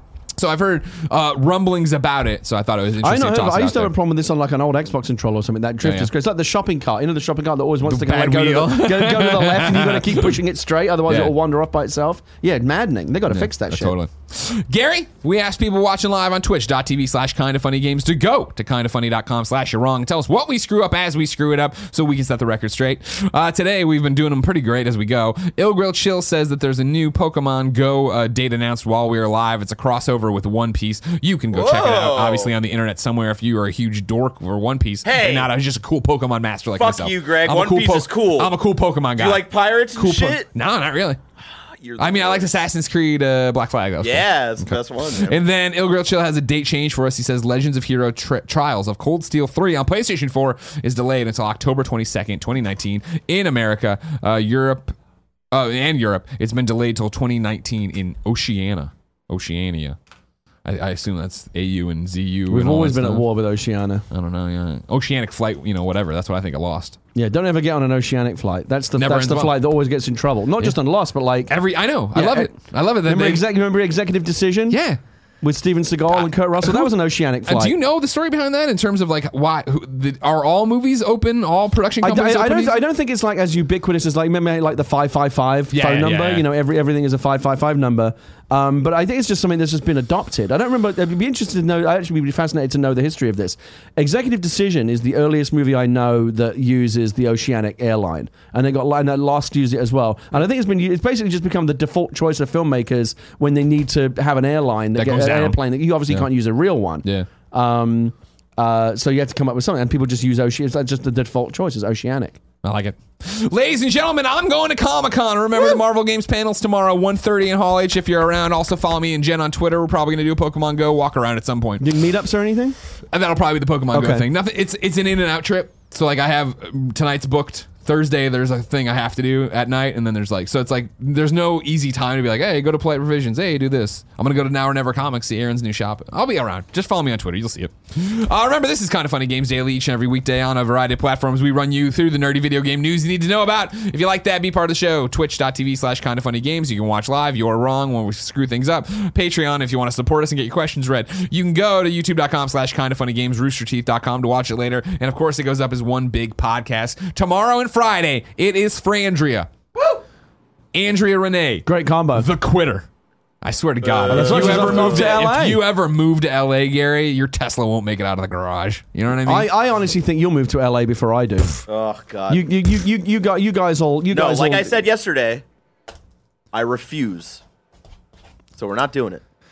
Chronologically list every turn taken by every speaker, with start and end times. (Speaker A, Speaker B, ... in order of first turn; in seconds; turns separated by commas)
Speaker A: 0.3-3.9, Speaker B: 3.0-13.9, Speaker A: 5.8-6.1, Speaker A: 7.8-10.4, Speaker A: 11.1-11.3, Speaker A: 13.3-41.2, Speaker C: 31.5-32.5, Speaker C: 35.0-35.5, Speaker C: 36.8-38.5, Speaker C: 39.2-40.5, Speaker C: 41.8-42.6, Speaker A: 42.0-55.0, Speaker C: 44.0-45.4, Speaker A: 55.5-60.0, Speaker A: 60.6-63.3, Speaker B: 62.5-64.0, Speaker A: 64.1-67.0, Speaker B: 67.2-71.5, Speaker A: 69.0-69.6, Speaker A: 71.5-73.4, Speaker B: 72.1-72.5, Speaker B: 73.0-74.8, Speaker A: 74.7-75.0, Speaker B: 75.4-77.8, Speaker A: 76.1-76.9, Speaker A: 77.5-82.8, Speaker B: 82.0-112.4, Speaker A: 85.7-86.5, Speaker A: 105.0-106.3, Speaker A: 112.6-121.9, Speaker B: 121.8-122.8, Speaker A: 123.1-159.5, Speaker B: 123.9-124.3, Speaker A: 160.7-162.9, Speaker B: 161.7-162.3, Speaker A: 163.4-169.5, Speaker C: 163.8-165.2, Speaker B: 164.1-165.6, Speaker B: 169.3-171.7, Speaker C: 171.7-172.4, Speaker B: 172.3-174.8, Speaker C: 174.1-175.4, Speaker C: 176.5-177.4, Speaker C: 178.6-179.2